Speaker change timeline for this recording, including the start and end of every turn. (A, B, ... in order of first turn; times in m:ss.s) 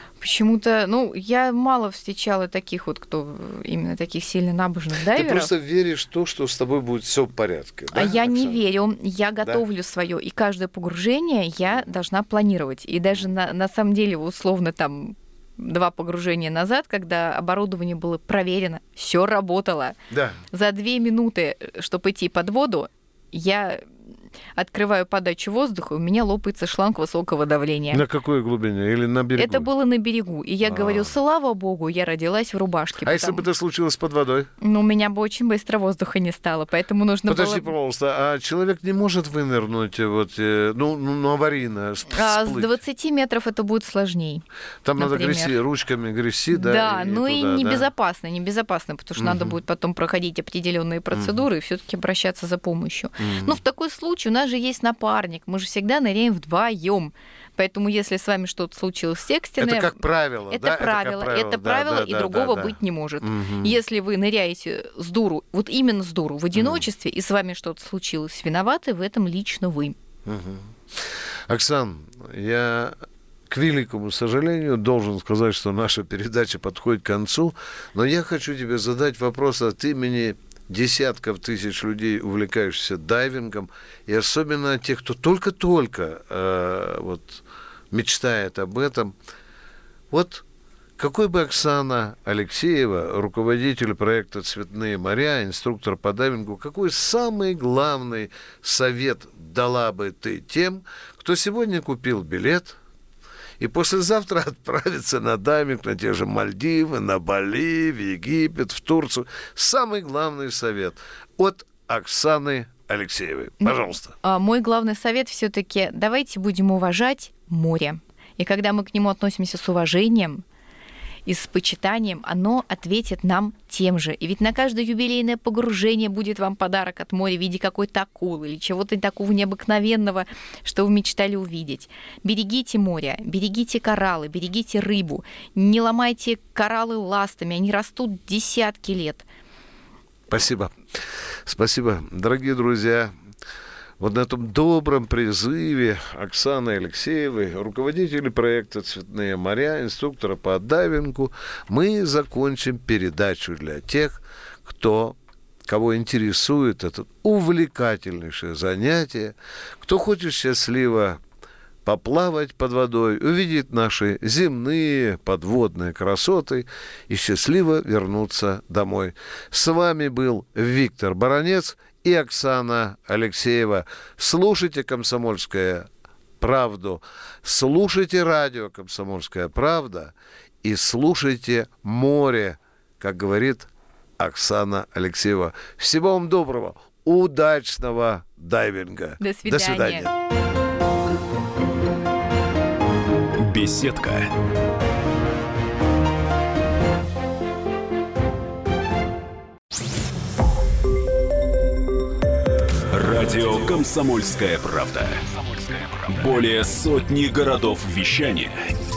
0:00.2-0:05.5 A
0:05.1-0:08.6 B
0:07.9-0:20.0 A
0:20.1-0:20.4 B
0:20.5-0:23.9 A
0:24.6-0:28.0 A
0:27.9-0:29.7 B
0:29.4-0:33.4 A
0:30.6-0:31.1 B
0:33.0-0:34.5 B
0:34.6-0:37.7 A
0:37.3-0:42.8 B
0:42.1-0:44.4 A
0:44.8-0:47.9 B
0:45.0-0:45.5 A
0:46.5-1:00.0 A
0:49.2-0:49.5 B
0:51.1-0:51.4 B
0:53.2-0:53.6 B
0:59.6-1:03.8 B
1:00.5-1:10.0 A
1:06.5-1:06.8 B
1:10.2-1:13.0 B
1:13.5-1:29.1 B
1:30.1-1:30.4 B
1:31.0-1:42.8 B
1:43.6-1:54.1 B
1:53.6-2:00.4 A
2:01.2-2:19.2 A
2:20.3-2:20.7 B
2:21.4-2:23.1 B
2:24.0-2:41.2 B
2:41.8-2:55.9 B
2:56.4-3:10.1 B
3:09.2-3:10.1 A
3:13.4-3:14.3 C
3:22.9-3:28.6 C